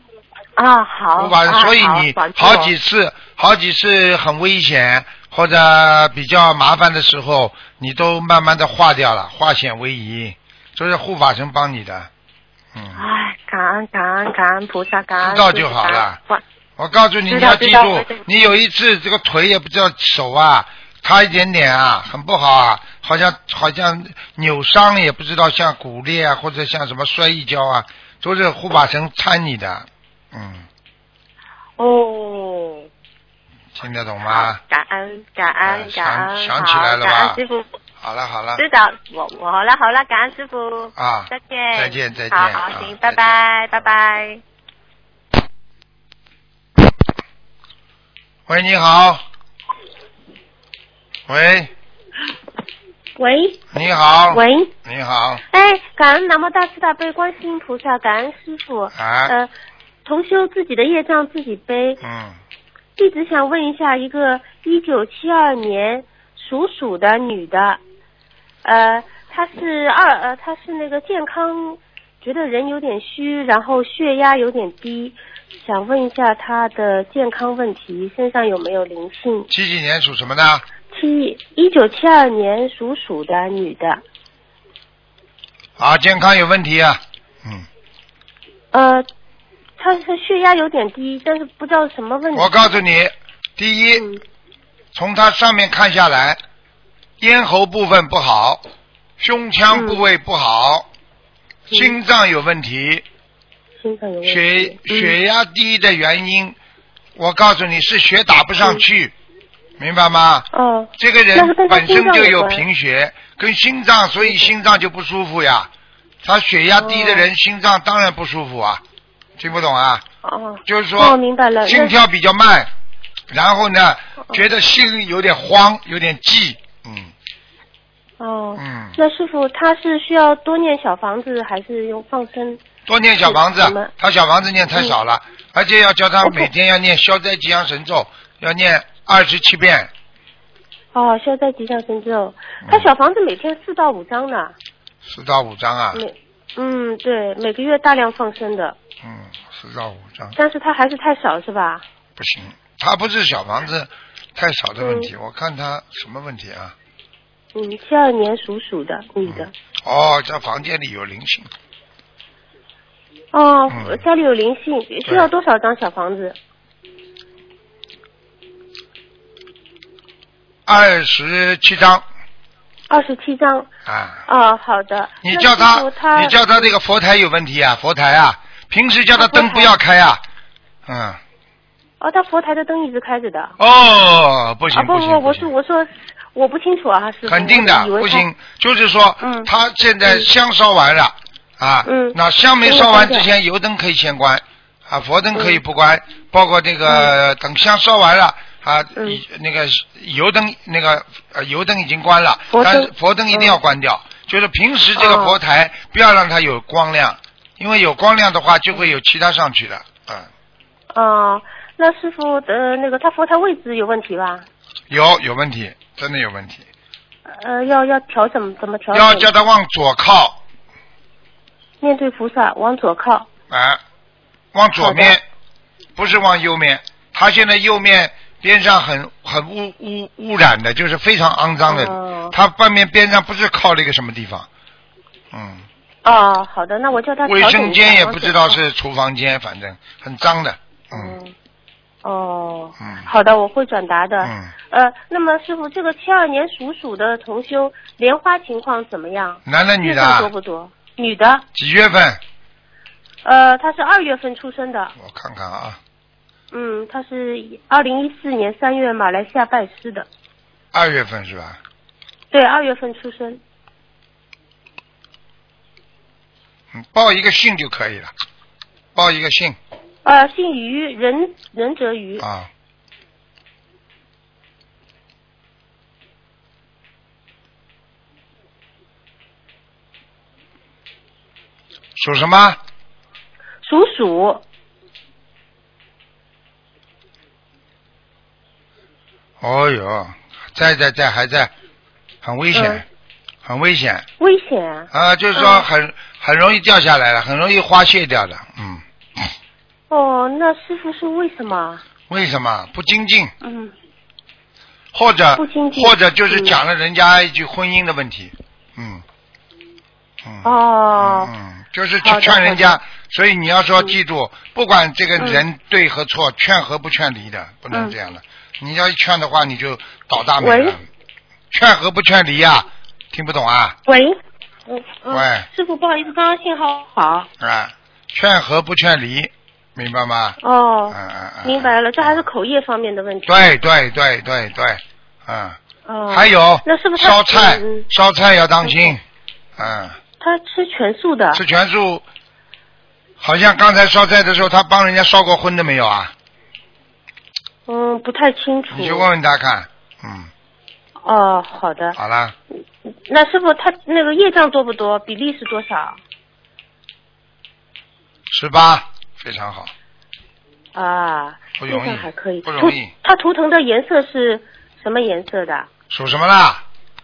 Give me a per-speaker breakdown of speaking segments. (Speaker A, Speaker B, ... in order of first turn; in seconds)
Speaker A: 0.6-2.7, 13.0-16.4, 17.3-18.2, 31.8-32.9, 34.3-37.6, 38.6-44.4
Speaker B: 1.2-12.1, 12.7-13.0, 15.2-16.2, 16.8-30.7, 33.8-34.6, 35.6-37.4, 38.0-38.6, 41.0-43.9, 48.5-49.2, 51.3-51.7, 53.7-55.4, 59.0-59.3, 62.0-62.4, 79.5-80.7, 85.8-87.7, 92.3-94.0, 94.9-96.4, 97.2-98.6, 99.2-100.9, 101.7-103.0, 104.2-106.6, 107.2-109.1, 109.8-115.7, 116.2-118.8, 119.4-120.0, 120.7-122.7, 123.3-127.1, 128.6-129.0, 132.9-139.9, 145.0-146.0, 149.0-150.4, 152.2-156.8, 159.3-161.5, 163.7-164.0, 170.7-172.1, 173.9-174.2, 175.2-180.2, 180.9-181.2, 183.6-185.5, 187.3-210.3, 214.9-216.7, 218.9-220.4, 223.5-223.8, 224.5-225.2, 226.0-234.5, 235.3-235.7, 237.2-241.2, 242.8-243.1, 244.2-244.5, 249.5-250.3, 251.6-252.2, 255.0-255.8, 260.7-261.6, 266.7-268.1, 268.9-269.6, 272.2-272.5, 282.0-282.6, 289.4-291.5, 292.2-292.9, 293.4-294.1, 294.9-299.3, 302.1-303.3, 304.9-309.0, 310.2-320.8, 321.5-323.8, 325.1-325.5, 327.4-330.4, 330.9-332.2, 333.3-335.6, 336.1-339.0, 339.6-340.0, 341.3-342.0, 343.2-346.1, 348.7-350.3, 351.9-352.4, 358.3-359.7, 361.6-362.9, 365.9-366.6
Speaker C: 53.2-53.6, 54.3-54.7, 55.5-59.5, 60.0-62.0, 63.0-67.8, 68.6-79.5, 80.9-84.0, 88.7-89.1, 89.8-92.7, 94.0-94.2, 99.7-100.0, 103.8-105.2, 110.5-112.7, 114.2-114.5, 116.8-117.3, 120.2-122.0, 128.2-132.6, 133.2-133.9, 136.2-136.5, 140.9-144.6, 145.9-148.8, 150.3-151.8, 154.8-155.1, 157.6-159.5, 163.3-166.4, 172.9-173.7, 174.3-176.7, 179.2-179.8, 182.0-183.6, 184.7-188.3, 191.9-193.3, 195.3-195.6, 196.9-197.1, 202.5-203.6, 205.0-205.4, 210.9-214.5, 217.3-219.3, 221.8-223.3, 224.8-225.2, 231.7-232.3, 236.0-238.6, 240.9-241.3, 242.0-251.4, 253.2-254.9, 256.5-260.1, 262.3-263.4, 270.0-272.3, 283.6-284.4, 292.5-292.8, 294.2-295.7, 299.9-301.8, 305.4-306.6, 310.4-311.3, 312.0-312.8, 315.2-315.4, 320.4-320.8, 323.9-327.3, 330.4-333.6, 335.9-337.9, 338.6-338.9, 340.2-341.4, 347.7-349.1, 351.0-352.0, 353.1-356.0, 360.8-365.7